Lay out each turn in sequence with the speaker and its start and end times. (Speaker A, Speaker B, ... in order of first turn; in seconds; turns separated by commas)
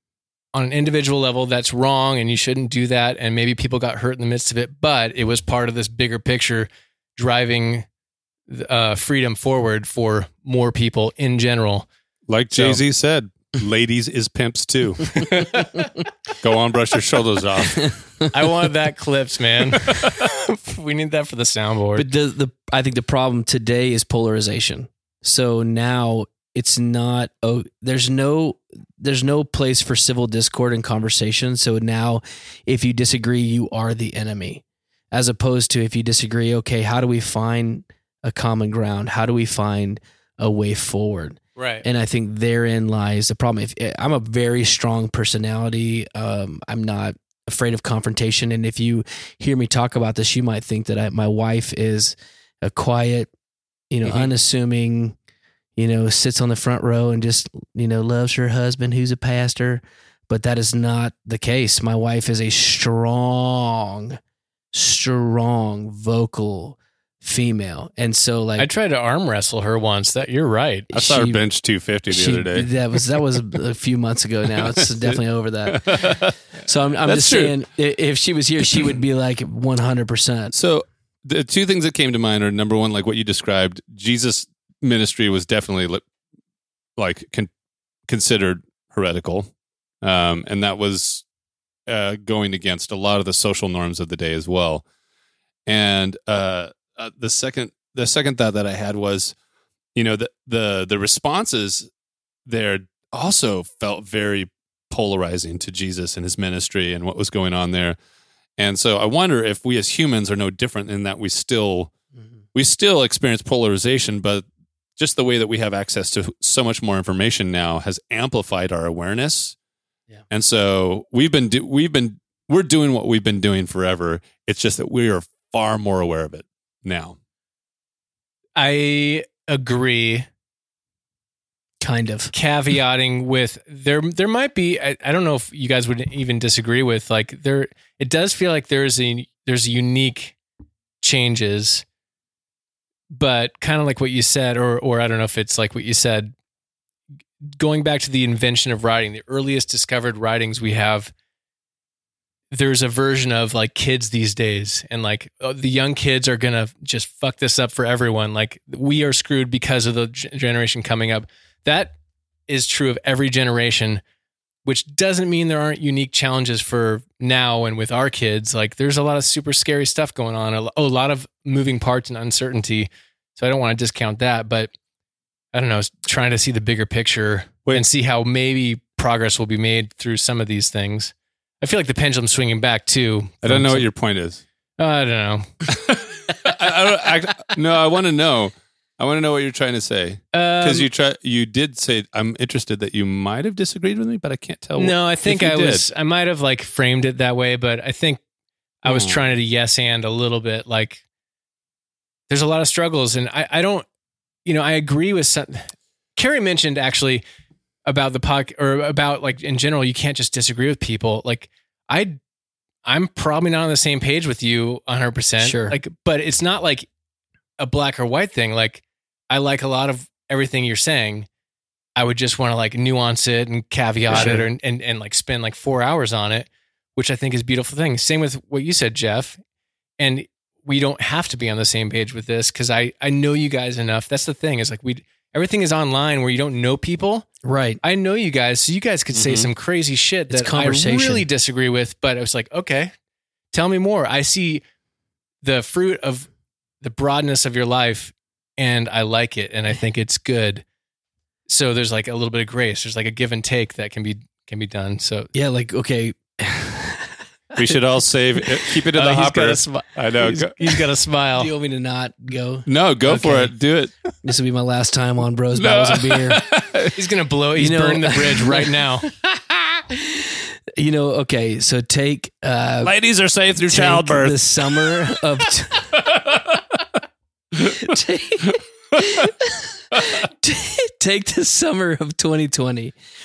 Speaker A: 0.5-7.8, Speaker A: 8.5-11.9, Speaker B: 12.3-15.4, Speaker A: 12.5-12.8, Speaker A: 15.2-15.7, Speaker B: 16.4-17.9, Speaker A: 18.3-22.1, Speaker C: 21.9-53.3, Speaker A: 41.5-41.9, Speaker C: 53.9-55.1, Speaker C: 55.8-64.2, Speaker C: 64.7-68.7, Speaker A: 68.6-70.9, Speaker C: 70.9-71.4, Speaker B: 70.9-72.7, Speaker C: 72.1-80.5, Speaker B: 74.7-76.3, Speaker B: 77.0-77.5, Speaker B: 80.5-86.0, Speaker B: 87.0-87.5, Speaker B: 88.1-89.5, Speaker B: 90.0-91.2, Speaker B: 91.9-94.8, Speaker B: 95.7-99.3, Speaker B: 99.9-101.9, Speaker B: 102.5-108.0, Speaker B: 108.6-111.9, Speaker B: 112.5-114.4, Speaker B: 115.0-119.5, Speaker B: 120.3-127.2, Speaker A: 128.6-130.3, Speaker C: 131.8-132.3, Speaker A: 132.3-140.3, Speaker A: 141.0-141.8, Speaker A: 143.1-146.3, Speaker A: 147.5-151.1, Speaker A: 152.5-161.9, Speaker A: 162.5-164.0, Speaker A: 164.6-174.7, Speaker A: 175.5-183.9, Speaker B: 183.4-184.4, Speaker A: 184.8-185.5, Speaker B: 185.7-195.8, Speaker A: 190.3-190.9, Speaker A: 194.8-198.2, Speaker A: 198.8-201.0, Speaker B: 198.8-199.3, Speaker A: 202.3-203.8, Speaker A: 204.4-207.2, Speaker A: 207.8-212.2, Speaker A: 212.8-216.8, Speaker C: 215.4-215.8, Speaker A: 217.6-221.3, Speaker A: 221.9-229.4, Speaker C: 224.1-224.4, Speaker A: 230.0-237.3, Speaker C: 237.4-237.8, Speaker A: 237.8-242.9, Speaker B: 239.1-239.5, Speaker C: 240.3-241.3, Speaker A: 243.5-244.6, Speaker A: 245.4-246.3, Speaker A: 246.8-250.6, Speaker A: 251.5-255.3, Speaker C: 255.3-257.7, Speaker B: 257.6-260.5, Speaker A: 258.9-261.5, Speaker C: 261.4-263.5, Speaker B: 262.7-263.9, Speaker C: 264.2-266.4, Speaker B: 265.5-266.9, Speaker A: 266.9-269.1, Speaker C: 267.6-268.7, Speaker C: 269.9-272.9, Speaker B: 272.8-275.1, Speaker C: 273.7-276.0, Speaker B: 276.0-276.6, Speaker C: 277.6-282.9, Speaker B: 277.6-277.9